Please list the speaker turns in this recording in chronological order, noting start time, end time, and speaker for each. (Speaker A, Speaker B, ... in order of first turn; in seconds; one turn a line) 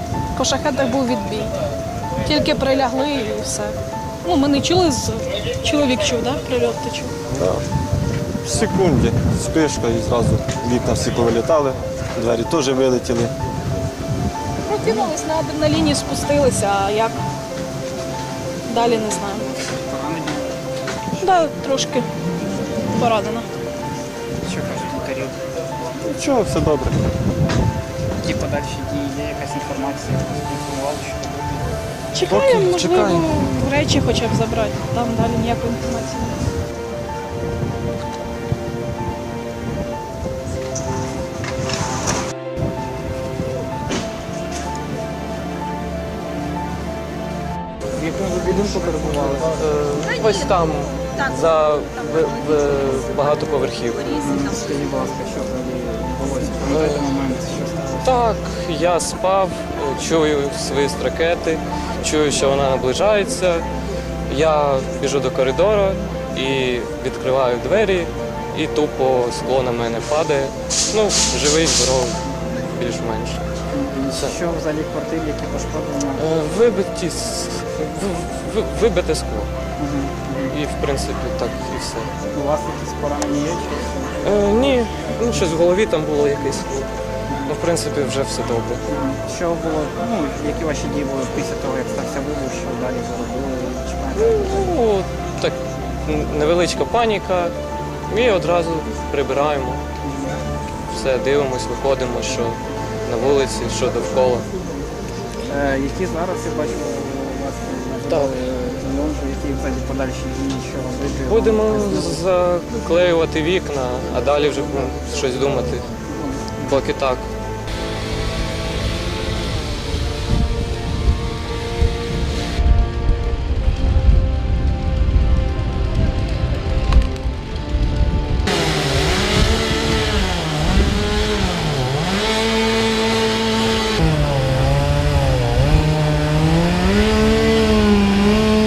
Speaker A: 0.3-1.5
Speaker A: 2.2-7.1
Speaker B: 7.3-7.6
Speaker B: 8.4-13.3
Speaker A: 14.7-17.2
Speaker A: 18.7-19.5
Speaker C: 19.6-20.5
Speaker A: 21.2-22.1
Speaker A: 22.9-23.4
Speaker C: 24.4-25.4
Speaker B: 26.1-27.0
Speaker C: 28.2-31.6
Speaker A: 32.1-36.5
Speaker B: 32.3-33.5
Speaker C: 48.0-49.6
Speaker D: 48.8-54.2
Speaker C: 54.1-58.2
Speaker D: 56.7-57.1
Speaker D: 58.0-63.6
Speaker D: 64.3-73.4
Speaker C: 73.7-76.2
Speaker D: 76.2-79.5
Speaker C: 79.8-80.5
Speaker D: 80.5-82.1
Speaker C: 82.3-84.6
Speaker D: 84.2-86.9
Speaker D: 87.5-88.8
Speaker C: 88.9-94.7
Speaker D: 94.2-97.5
Speaker D: 98.1-99.8
Speaker C: 100.1-100.3
Speaker D: 100.9-104.5
Speaker C: 105.5-112.2
Speaker D: 111.3-115.8
Speaker C: 116.1-116.5
Speaker D: 116.6-117.3